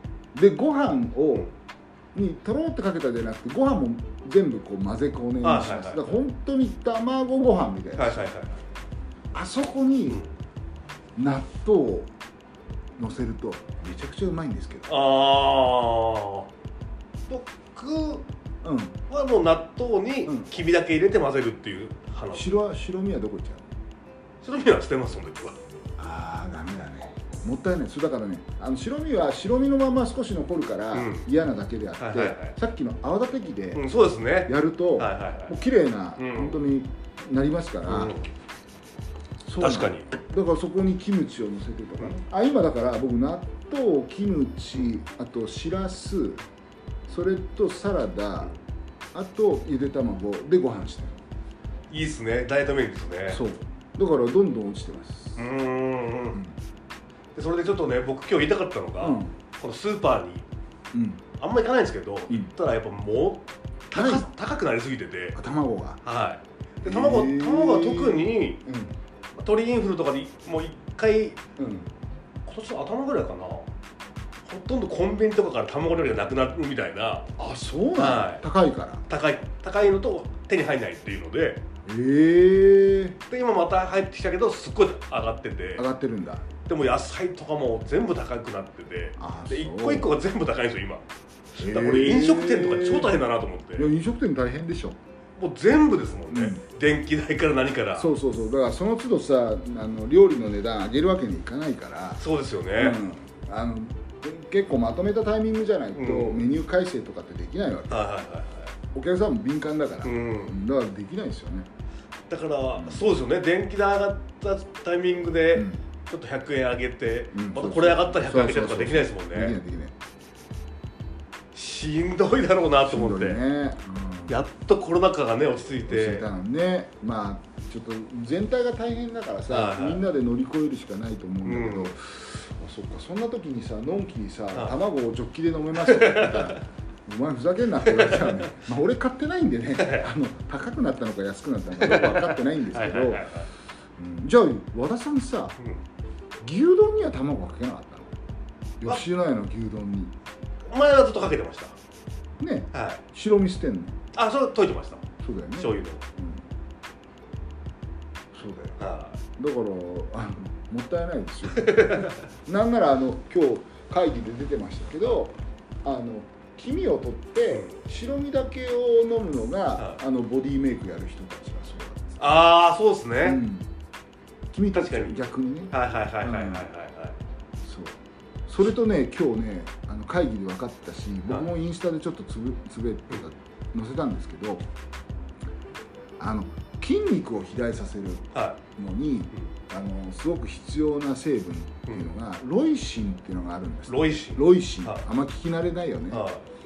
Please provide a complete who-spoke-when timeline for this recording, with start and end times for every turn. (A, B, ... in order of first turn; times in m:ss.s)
0:00.3-0:01.5 A
0:02.1-0:08.3 A
0:05.4-0:06.2 B
0:08.0-0:08.6 B
0:09.3-0:10.2 A
0:11.2-0:12.1 A
0:13.0-0:14.9 A
0:14.9-0:16.5 B
0:17.3-0:18.2 B
0:18.6-0:19.0 A
0:19.1-0:22.5 B
0:22.3-0:23.6 A
0:24.4-0:25.6 B
0:26.0-0:33.8 A
0:30.9-0:31.3 B
0:32.0-0:32.5 B
0:33.7-0:35.6 B
0:34.4-0:38.2 A
0:36.2-0:36.6 B
0:37.9-0:38.3 B
0:39.4-0:46.4 A
0:39.6-0:40.1 B
0:47.1-0:48.5 A
0:49.1-0:51.2 A
0:51.9-0:53.4 B
0:53.3-0:55.5 A
0:55.4-0:56.4 B
0:57.4-1:00.4 B
0:59.0-0:59.3 A
1:00.9-1:01.2 A
1:01.4-1:05.4 B
1:03.9-1:04.3 A
1:05.3-1:06.0 A
1:06.0-1:08.6 B
1:06.8-1:08.9 A
1:09.3-1:11.4 B
1:11.6-1:11.9 A
1:12.4-1:13.7 B
1:14.5-1:17.3 B
1:17.4-1:19.0 A
1:18.0-1:18.4 B
1:19.1-1:21.6 B
1:21.8-1:23.2 A
1:23.3-1:25.8 B
1:25.8-1:26.4 A
1:26.6-1:31.0 B
1:29.2-1:30.1 A
1:31.6-1:33.9 B
1:31.6-1:33.2 A
1:33.8-1:35.0 A
1:35.4-1:38.1 B
1:36.3-1:36.6 A
1:37.9-1:42.2 A
1:42.2-1:43.0 B
1:42.8-1:48.1 A
1:46.0-1:46.4 B
1:47.9-1:48.7 B
1:48.9-1:51.7 A
1:50.0-1:50.6 B
1:52.3-1:59.6 B
1:55.5-1:55.8 A
1:57.3-1:59.9 A
2:01.5-2:03.4 B
2:02.8-2:04.4 A
2:04.3-2:06.3 B
2:05.9-2:23.3 A
2:09.5-2:10.0 B
2:11.4-2:11.9 B
2:15.8-2:16.6 B
2:17.9-2:18.3 B
2:19.8-2:20.0 B
2:21.8-2:23.5 B
2:24.0-2:25.6 A
2:26.4-2:28.1 A
2:28.8-2:30.1 A
2:30.7-2:31.8 B
2:32.4-2:34.0 A
2:32.7-2:33.0 B
2:34.1-2:36.0 B
2:35.2-2:36.4 A
2:38.3-2:38.8 A
2:38.8-2:39.2 B
2:39.4-2:52.4 A
2:41.5-2:42.2 B
2:52.2-2:53.4 B
2:53.2-2:53.7 A
2:54.5-2:56.7 A
2:54.7-2:57.2 B
2:57.6-3:04.6 A
3:06.2-3:16.3 A
3:13.9-3:15.0 B
3:16.1-3:16.4 B